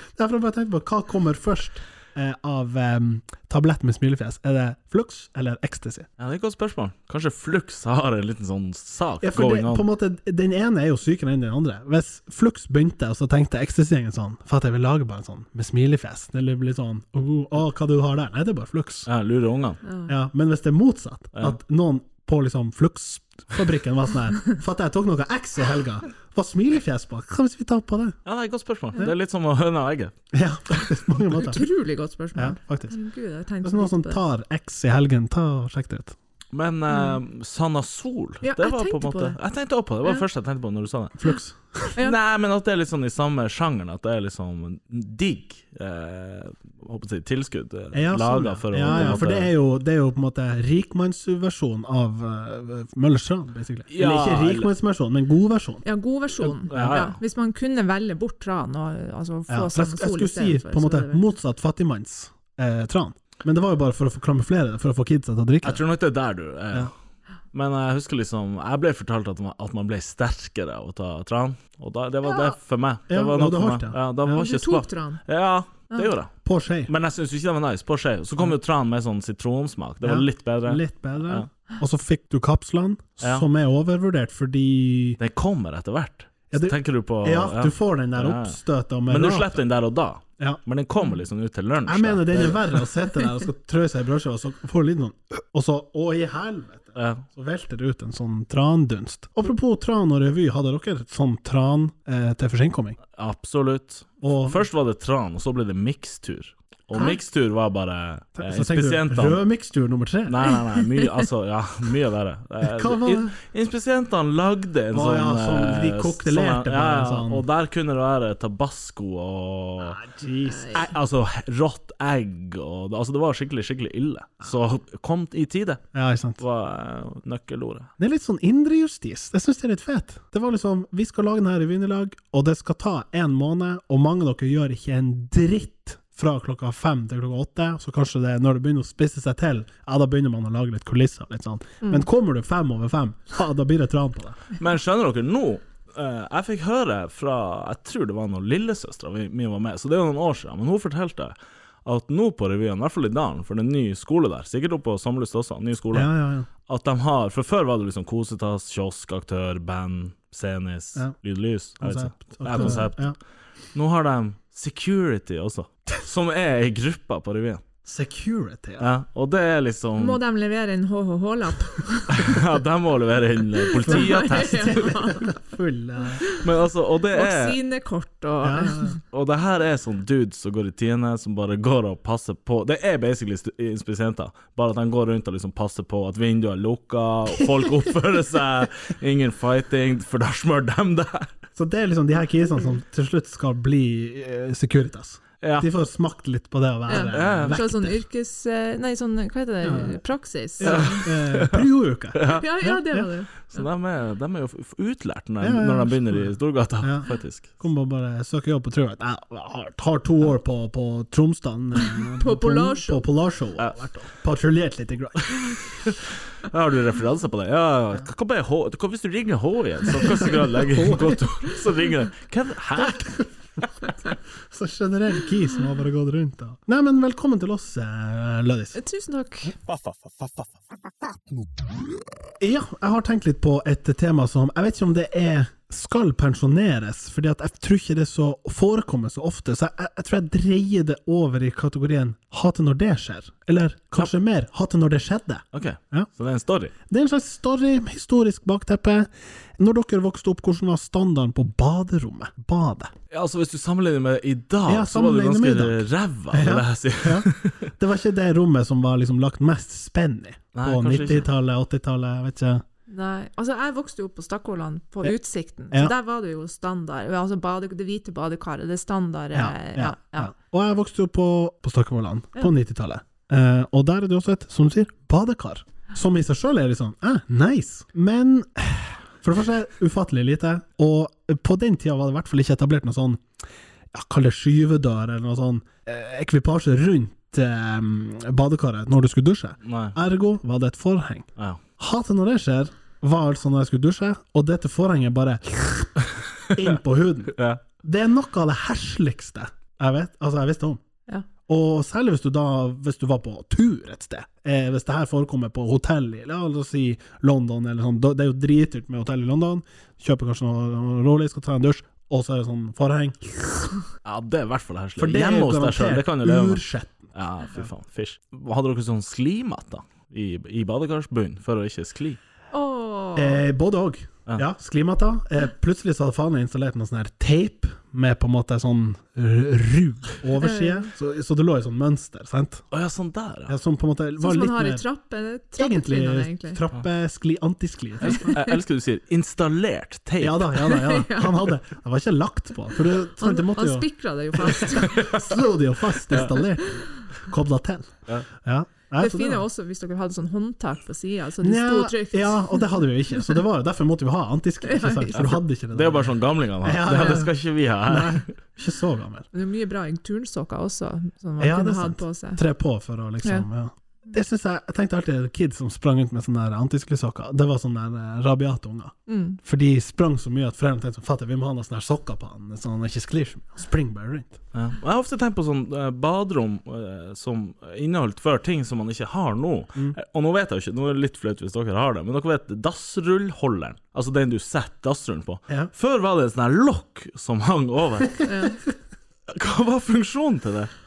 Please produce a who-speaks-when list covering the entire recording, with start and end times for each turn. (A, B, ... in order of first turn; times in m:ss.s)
0:00.1-0:06.1 A
0:06.2-0:09.8 B
0:09.2-0:19.1 A
0:19.1-0:19.8 B
0:19.8-0:20.1 C
0:20.0-0:28.2 A
0:28.2-0:30.1 B
0:30.3-0:31.6 A
0:31.4-0:34.2 C
0:32.3-0:32.9 A
0:33.6-0:36.2 A
0:36.5-0:41.2 B
0:36.9-0:37.2 C
0:38.4-0:39.4 C
0:41.2-0:41.9 A
0:42.0-0:49.5 B
0:47.9-0:55.8 A
0:48.9-0:49.2 C
0:53.9-0:54.7 B
0:55.8-1:01.2 C
0:56.6-0:57.2 B
0:59.5-1:05.8 A
1:05.6-1:06.9 B
1:07.5-1:16.3 B
1:13.1-1:14.4 A
1:14.3-1:15.2 C
1:16.4-1:16.9 A
1:16.9-1:21.4 B
1:20.0-1:25.2 A
1:25.2-1:28.6 B
1:26.5-1:29.6 A
1:29.1-1:32.8 B
1:31.8-1:43.0 A
1:37.0-1:37.2 B
1:43.1-1:49.4 B
1:44.2-1:44.6 A
1:48.4-1:50.5 A
1:50.3-2:00.0 B
1:52.6-1:53.3 A
1:54.9-1:57.4 A
1:59.8-2:00.9 A
2:00.5-2:00.8 C
2:00.7-2:05.8 B
2:05.9-2:06.4 A
2:06.4-2:07.9 B
2:08.0-2:24.4 A
2:24.6-2:36.1 B
2:35.9-2:36.5 A
2:36.6-2:43.1 B
2:41.8-2:43.2 A
2:43.7-2:47.6 B
2:47.8-2:48.9 A
2:48.8-2:50.2 B
2:50.0-2:52.4 C
2:52.1-2:55.0 B
2:53.6-2:55.3 C
2:53.9-2:56.2 A
2:56.1-2:56.4 C
2:56.3-2:57.6 B
2:57.1-2:59.0 C
2:58.4-2:58.9 A
2:59.1-3:11.3 B
3:11.6-3:18.0 A
3:15.4-3:15.7 B
3:16.9-3:21.0 C
3:16.9-3:17.6 B
3:19.6-3:20.0 A
3:20.6-3:23.1 A
3:20.6-3:22.4 B
3:22.3-3:23.6 C
3:23.4-3:27.5 B
3:25.4-3:35.6 A
3:31.8-3:33.0 C
3:35.8-3:43.2 B
3:40.5-3:41.2 A
3:42.8-3:43.3 A
3:44.5-3:48.8 A
3:48.7-3:49.6 C
3:52.4-4:06.1 A
4:05.5-4:06.7 B
4:06.9-4:12.9 A
4:13.1-4:17.7 B
4:14.7-4:22.6 A
4:20.5-4:21.3 B
4:22.9-4:30.3 C
4:29.3-4:43.2 A
4:43.9-4:56.0 A
4:49.6-4:49.9 B
4:56.5-5:00.8 A
5:01.5-5:13.7 A
5:14.0-5:16.6 B
5:15.0-5:17.7 A
5:17.1-5:22.2 B
5:22.5-5:23.4 C
5:23.2-5:32.6 A
5:30.4-5:30.9 C
5:32.7-5:33.5 B
5:33.5-5:34.8 A
5:34.2-5:36.6 C
5:35.6-5:38.3 A
5:38.0-5:38.5 C
5:38.1-5:40.5 B
5:40.2-5:49.4 A
5:40.6-5:41.5 C
5:43.2-5:45.3 C
5:46.4-5:46.9 C
5:49.0-5:52.7 C
5:51.4-5:59.2 A
5:54.6-5:55.2 C
5:55.1-5:58.3 B
5:59.3-6:02.4 C
6:01.4-6:14.4 A
6:09.1-6:09.4 C
6:14.5-6:28.2 B
6:28.2-6:28.6 C
6:29.3-6:30.7 B